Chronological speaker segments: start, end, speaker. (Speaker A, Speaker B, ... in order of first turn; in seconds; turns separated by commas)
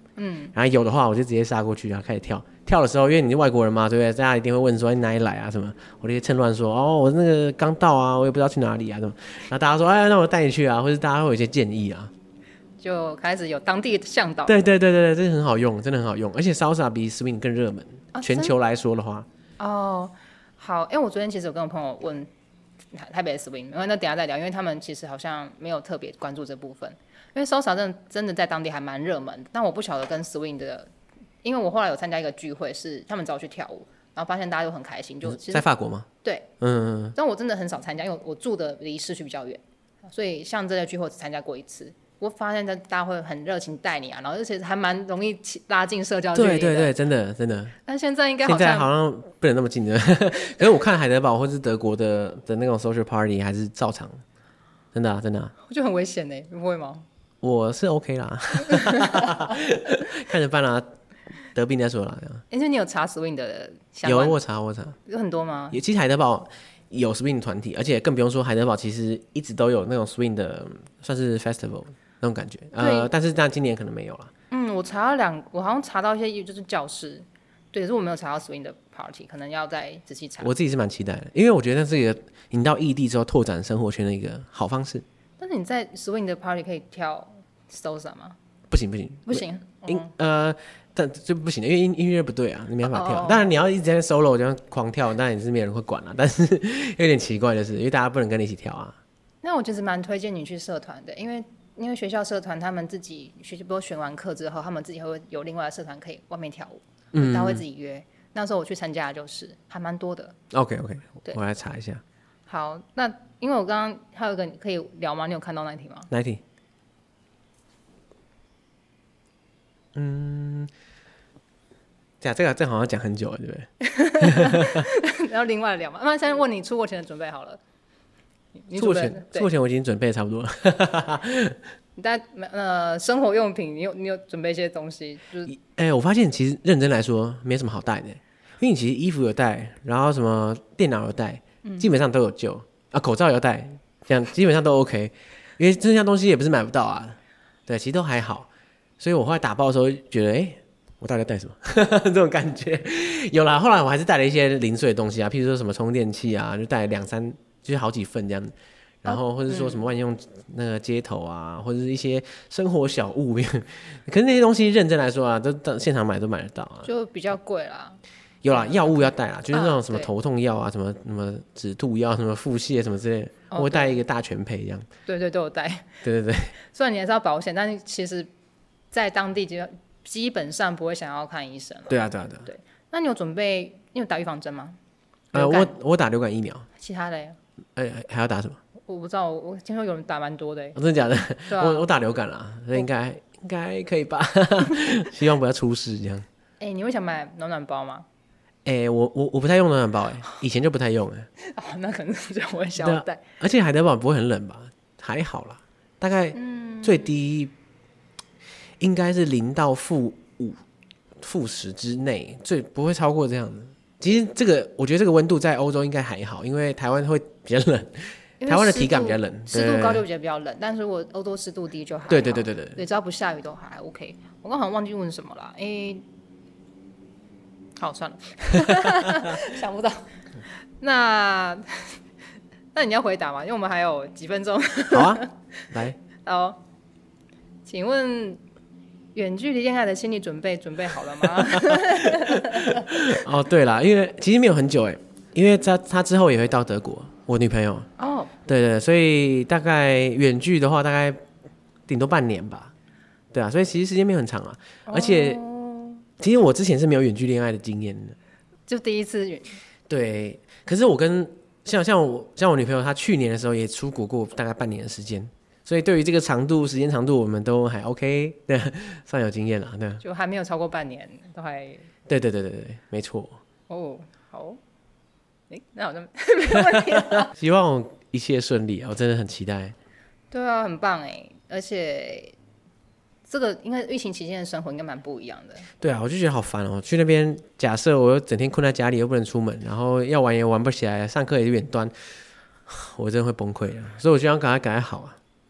Speaker A: 0.2-0.5, Speaker B: 0.5-12.1, Speaker A: 12.8-14.6, Speaker B: 14.4-19.2, Speaker A: 18.1-18.5, Speaker A: 19.6-22.3, Speaker A: 22.9-30.9, Speaker A: 31.4-35.6, Speaker B: 35.2-36.1, Speaker A: 36.2-36.5, Speaker B: 36.6-37.1, Speaker A: 37.1-46.9, Speaker B: 46.3-47.8, Speaker A: 47.9-48.9, Speaker B: 48.4-54.2, Speaker B: 54.9-55.5, Speaker A: 55.6-57.0, Speaker B: 57.4-60.9, Speaker A: 58.7-59.5, Speaker B: 61.5-62.4, Speaker A: 62.5-64.4, Speaker B: 64.0-65.0, Speaker A: 65.0-65.8, Speaker B: 65.7-74.3, Speaker A: 72.8-73.1, Speaker A: 74.5-80.5, Speaker B: 80.4-85.0, Speaker A: 85.4-88.4, Speaker B: 88.7-99.0, Speaker A: 89.3-90.1, Speaker A: 92.8-93.5, Speaker A: 99.4-110.4, Speaker B: 107.1-107.6, Speaker B: 110.5-112.0, Speaker A: 112.5-116.1, Speaker B: 116.1-116.4, Speaker B: 119.9-120.7, Speaker B: 122.2-124.9, Speaker A: 123.8-127.6, Speaker A: 128.6-129.5, Speaker B: 128.8-131.6, Speaker A: 131.9-135.5, Speaker B: 135.5-148.5, Speaker A: 141.6-141.9, Speaker B: 149.0-166.9, Speaker A: 159.1-159.8, Speaker A: 166.8-170.1, Speaker B: 168.4-174.9, Speaker A: 173.5-174.0, Speaker A: 175.1-175.9, Speaker B: 176.0-176.5, Speaker A: 176.6-178.3, Speaker A: 178.9-184.8, Speaker B: 181.9-182.5, Speaker A: 185.3-185.7, Speaker B: 185.3-186.7, Speaker A: 186.8-187.4, Speaker B: 187.8-188.6, Speaker A: 188.8-190.8, Speaker B: 190.8-196.2, Speaker A: 191.5-191.8, Speaker A: 196.6-198.1, Speaker B: 198.6-201.3, Speaker A: 201.4-203.2, Speaker B: 202.8-207.5, Speaker A: 206.3-207.2, Speaker B: 208.8-210.6, Speaker B: 211.2-220.0, Speaker A: 218.4-226.0, Speaker B: 222.1-222.8, Speaker A: 227.8-230.1, Speaker B: 228.6-229.3, Speaker A: 230.8-232.0, Speaker A: 232.7-235.3, Speaker B: 234.9-236.0, Speaker A: 236.2-236.6, Speaker A: 237.6-238.4, Speaker A: 239.1-243.2, Speaker B: 241.4-247.9, Speaker A: 248.0-248.3, Speaker B: 248.5-251.2, Speaker B: 251.9-252.7, Speaker B: 253.3-255.4, Speaker A: 254.9-256.0, Speaker B: 256.2-258.1, Speaker A: 258.7-259.6, Speaker B: 259.9-270.0, Speaker A: 270.0-271.9, Speaker B: 272.1-273.4, Speaker A: 273.7-274.6, Speaker A: 275.5-277.3, Speaker B: 276.7-279.7, Speaker A: 280.3-282.3, Speaker A: 283.3-285.7, Speaker B: 285.8-291.9, Speaker B: 292.7-295.2